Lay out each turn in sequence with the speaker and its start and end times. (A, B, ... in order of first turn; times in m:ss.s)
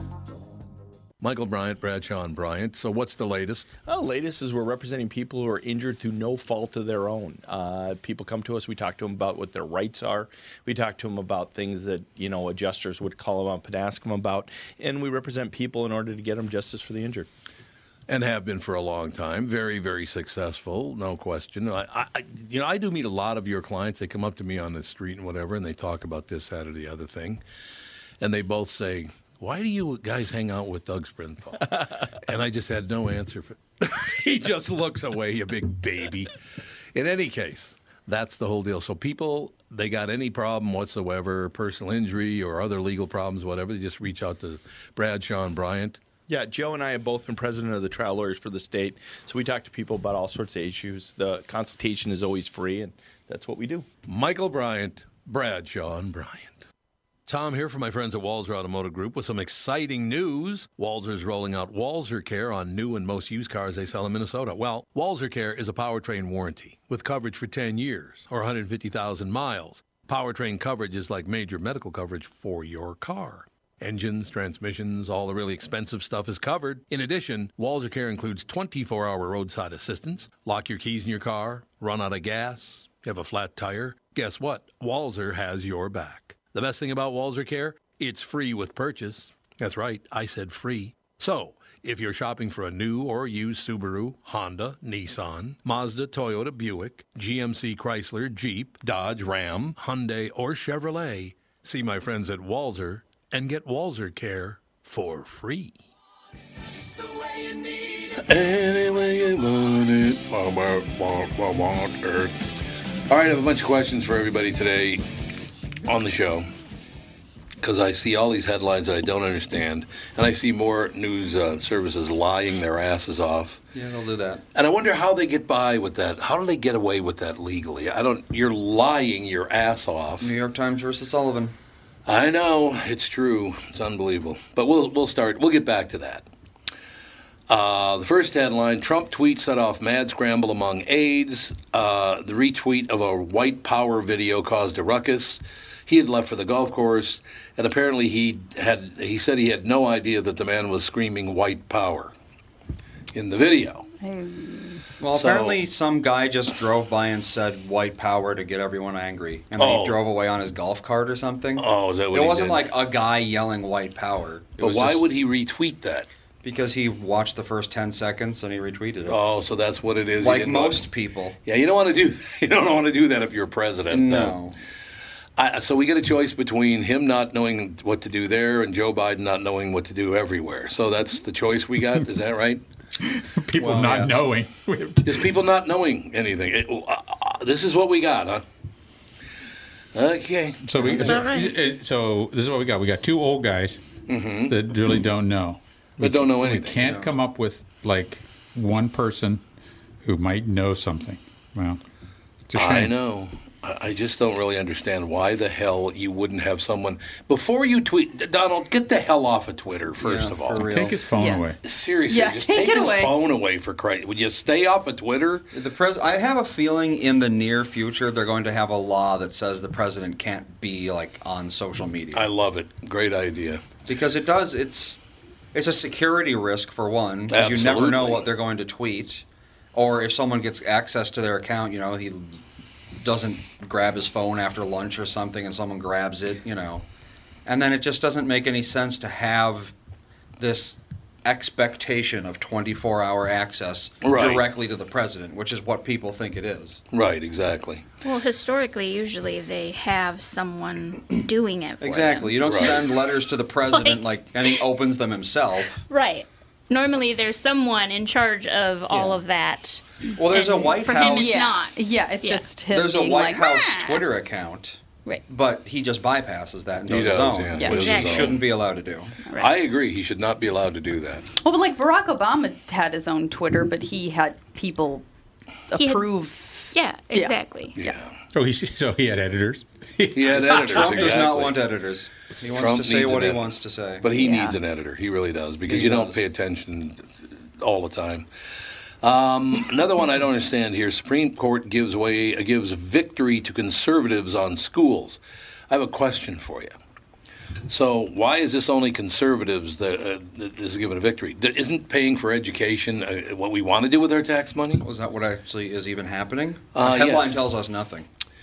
0:01.2-0:03.7 A
0:03.8-0:17.3 B
0:18.1-0:27.4 A
0:28.2-0:36.3 A
0:36.9-0:46.0 A
0:46.3-0:53.9 B
0:54.1-0:56.6 A
0:57.3-1:45.8 A
1:48.1-1:52.4 A
1:53.1-1:55.0 A
1:55.8-1:56.4 A
1:57.6-2:03.6 A
2:03.7-2:04.4 C
2:04.5-2:10.3 A
2:10.2-2:11.5 C
2:12.0-2:16.2 A
2:17.5-2:32.1 A
2:33.1-2:33.8 A
2:34.0-2:34.8 D
2:35.0-2:45.0 C
2:35.1-2:35.6 A
2:39.6-2:40.0 A
2:41.6-2:42.7 A
2:44.6-2:46.1 A
2:46.4-2:49.2 C
2:49.0-2:50.9 A
2:50.2-2:51.4 C
2:51.4-2:54.4 A
2:53.9-2:54.6 C
2:55.4-3:02.6 A
3:03.0-3:05.3 E
3:03.6-3:04.3 C
3:05.0-3:08.4 A
3:09.9-3:11.2 A
3:10.6-3:13.8 E
3:10.8-3:11.5 F
3:14.1-3:14.6 A
3:14.4-3:19.4 E
3:16.0-3:16.8 A
3:16.8-3:17.1 C
3:20.0-3:21.8 E
3:22.5-3:22.9 E
3:22.6-3:30.7 A
3:30.0-3:31.0 C
3:30.6-3:31.6 E
3:31.1-3:33.1 D
3:31.6-3:35.4 A
3:35.5-3:42.3 C
3:42.1-3:43.6 A
3:43.8-3:45.0 C
3:45.5-3:52.4 C
3:47.3-3:48.3 A
3:53.0-3:56.8 C
3:57.4-3:59.7 C
4:00.4-4:06.8 C
4:04.0-4:04.5 A
4:06.9-4:07.8 A
4:08.0-4:12.8 F
4:11.8-4:15.8 C
4:12.4-4:12.8 A
4:13.8-4:14.0 F
4:15.9-4:22.5 F
4:18.9-4:19.2 C
4:20.2-4:21.6 C
4:21.0-4:23.5 D
4:22.7-4:29.2 C
4:23.4-4:24.0 F
4:26.9-4:28.4 A
4:27.6-4:27.8 D
4:27.6-4:28.4 F
4:29.4-4:31.3 A
4:31.4-4:35.0 D
4:35.7-4:38.0 D
4:35.7-4:36.1 F
4:36.7-4:37.8 F
4:37.8-4:38.2 A
4:38.3-4:41.4 E
4:40.1-4:41.6 A
4:40.5-4:44.0 C
4:42.5-4:48.3 A
4:44.1-4:44.6 D
4:45.7-4:46.2 C
4:49.0-4:56.7 A
4:57.7-5:04.8 A
5:04.8-5:08.1 C
5:06.7-5:07.5 A